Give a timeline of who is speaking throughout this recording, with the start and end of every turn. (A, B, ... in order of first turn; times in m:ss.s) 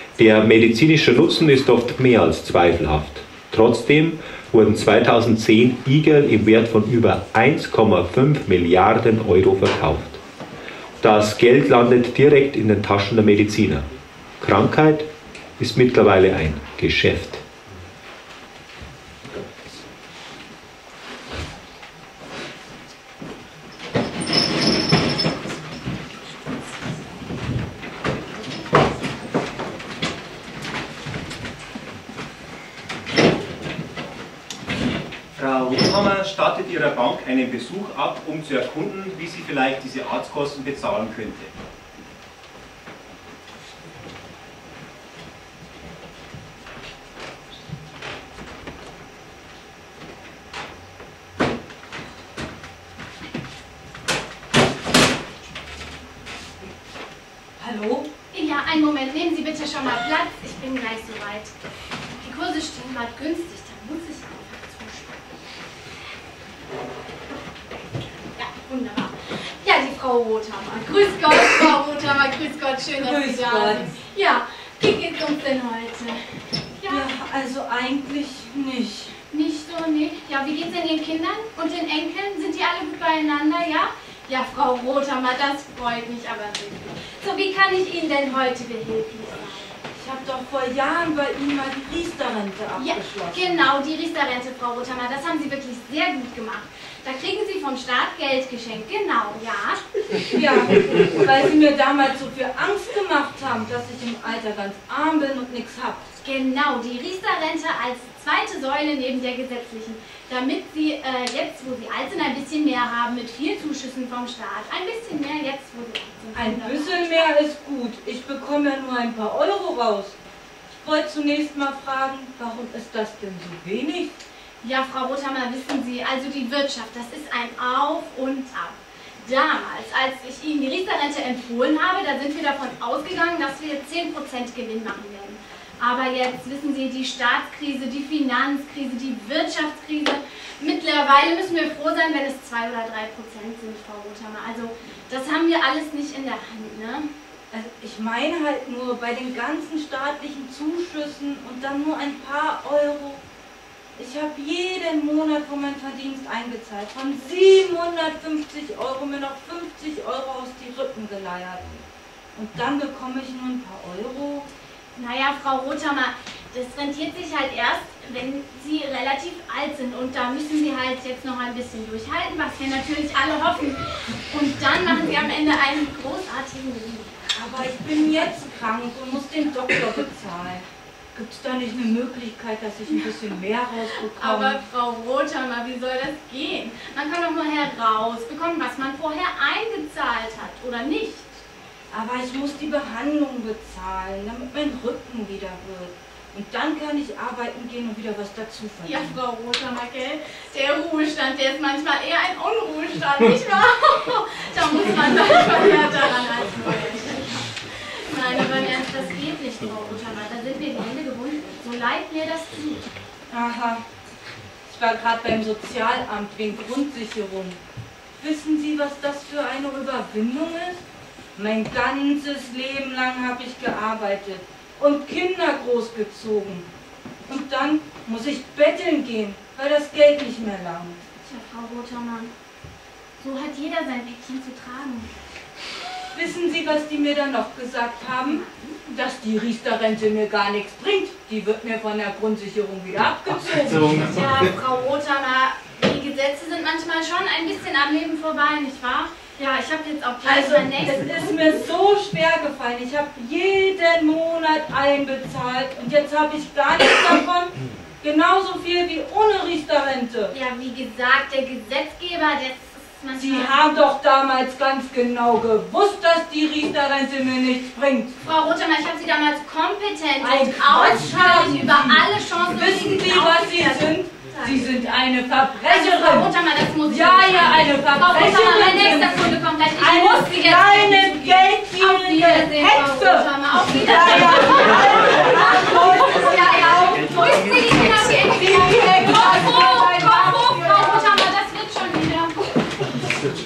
0:00.2-0:10.2 A
0:11.0-0:13.9 A
0:14.4-0:17.4 A
0:35.3-0:41.5 B
0:57.6-0:58.1 C
0:58.3-1:01.5 D
1:02.2-1:05.2 D
1:08.4-1:16.3 D
1:13.0-1:14.0 C
1:16.8-1:17.1 D
1:16.9-1:19.1 C
1:19.3-1:29.7 D
1:30.0-1:33.6 C
1:32.8-1:39.8 D
1:40.3-1:46.1 C
1:46.2-1:57.3 D
1:56.3-2:00.2 C
2:00.8-2:04.1 C
2:04.6-2:27.1 D
2:27.5-2:33.2 C
2:34.0-2:41.8 C
2:42.3-2:44.5 C
2:45.0-2:53.8 D
2:54.3-2:57.1 D
2:57.3-3:04.6 C
3:04.2-3:11.3 D
3:11.9-3:19.1 C
3:18.8-3:27.4 D
3:27.9-3:32.9 D
3:33.3-3:33.8 C
3:34.7-3:37.6 C
3:38.2-3:40.8 C
3:41.4-3:46.7 C
3:47.3-3:51.0 C
3:51.2-3:52.3 D
3:53.2-3:55.1 D
3:56.1-4:04.0 C
4:03.4-4:11.6 D
4:10.2-4:20.3 C
4:20.3-4:23.5 D
4:23.1-4:28.2 C
4:28.2-4:34.8 D
4:30.2-4:51.3 C
4:35.6-4:52.5 D